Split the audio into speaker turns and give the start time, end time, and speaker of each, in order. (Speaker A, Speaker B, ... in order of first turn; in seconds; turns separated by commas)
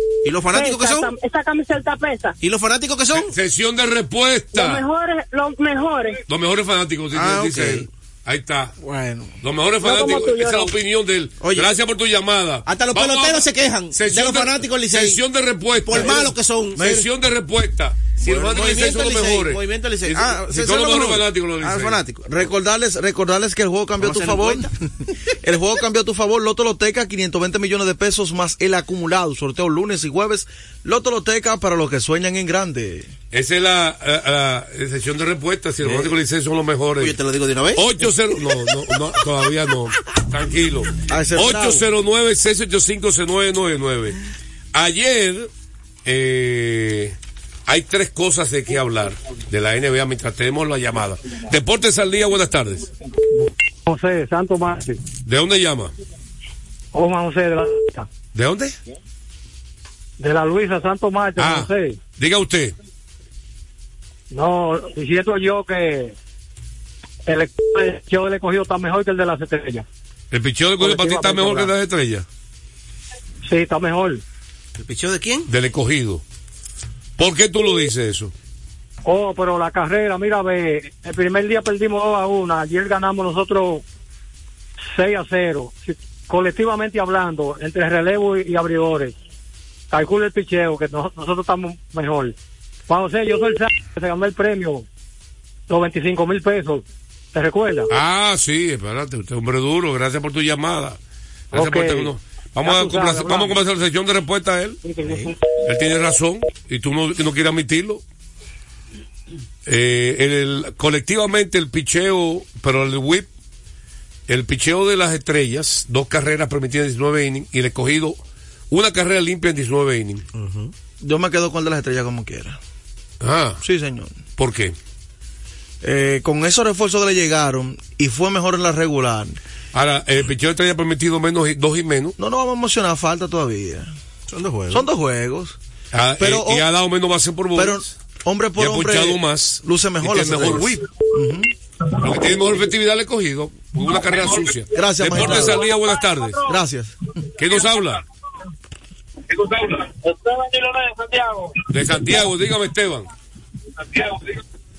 Speaker A: 0.2-1.1, Speaker B: 0.5-2.3, Speaker A: 2.4-3.3, Speaker C: 3.1-4.8, Speaker B: 4.5-6.2, Speaker C: 6.3-8.7, Speaker A: 7.1-7.9, Speaker D: 8.8-9.3, Speaker C: 9.4-22.0, Speaker B: 9.8-10.7, Speaker A: 11.4-11.7, Speaker A: 12.7-15.2, Speaker A: 15.8-16.9, Speaker A: 18.2-22.4, Speaker D: 22.3-24.7, Speaker A: 24.0-24.7, Speaker D: 25.4-33.1, Speaker C: 33.3-37.2, Speaker A: 35.8-36.1, Speaker A: 37.0-37.8, Speaker C: 37.8-44.2, Speaker D: 41.1-41.8, Speaker C: 44.7-45.5, Speaker C: 46.0-47.1, Speaker C: 47.7-52.9, Speaker E: 53.3-55.0, Speaker C: 55.2-55.9, Speaker E: 56.9-58.1, Speaker C: 58.3-58.8, Speaker E: 60.2-62.0, Speaker C: 61.4-62.8, Speaker E: 64.3-66.1, Speaker E: 67.3-69.9, Speaker C: 70.3-72.2, Speaker E: 70.8-71.7, Speaker E: 73.4-74.2, Speaker A: 74.8-75.5, Speaker C: 75.5-76.2, Speaker C: 77.2-78.3, Speaker E: 79.1-83.8, Speaker E: 84.9-89.2, Speaker E: 89.9-92.3, Speaker E: 92.9-94.9, Speaker E: 95.7-96.8, Speaker E: 97.3-97.9, Speaker C: 97.9-101.0, Speaker E: 101.5-102.1, Speaker C: 101.5-104.8, Speaker E: 102.6-103.6, Speaker E: 104.8-105.3, Speaker A: 105.0-105.3, Speaker C: 105.6-108.0, Speaker C: 109.7-113.3, Speaker C: 114.3-118.2, Speaker C: 118.7-120.2, Speaker A: 120.3-120.7, Speaker D: 121.0-122.6, Speaker C: 123.2-123.6, Speaker D: 123.6-124.2, Speaker C: 124.4-124.8, Speaker D: 125.8-129.4, Speaker C: 129.7-132.2, Speaker D: 132.2-133.9, Speaker A: 134.3-134.9, Speaker D: 134.7-135.6, Speaker C: 135.9-137.9, Speaker D: 136.2-136.7, Speaker D: 137.6-141.5, Speaker C: 138.6-140.8, Speaker C: 142.0-146.4, Speaker F: 143.9-144.6, Speaker D: 144.7-145.6, Speaker F: 145.1-146.5, Speaker D: 146.5-146.9, Speaker C: 147.4-148.0, Speaker F: 147.4-147.9, Speaker F: 149.3-151.6, Speaker C: 151.7-153.1, Speaker F: 153.8-154.3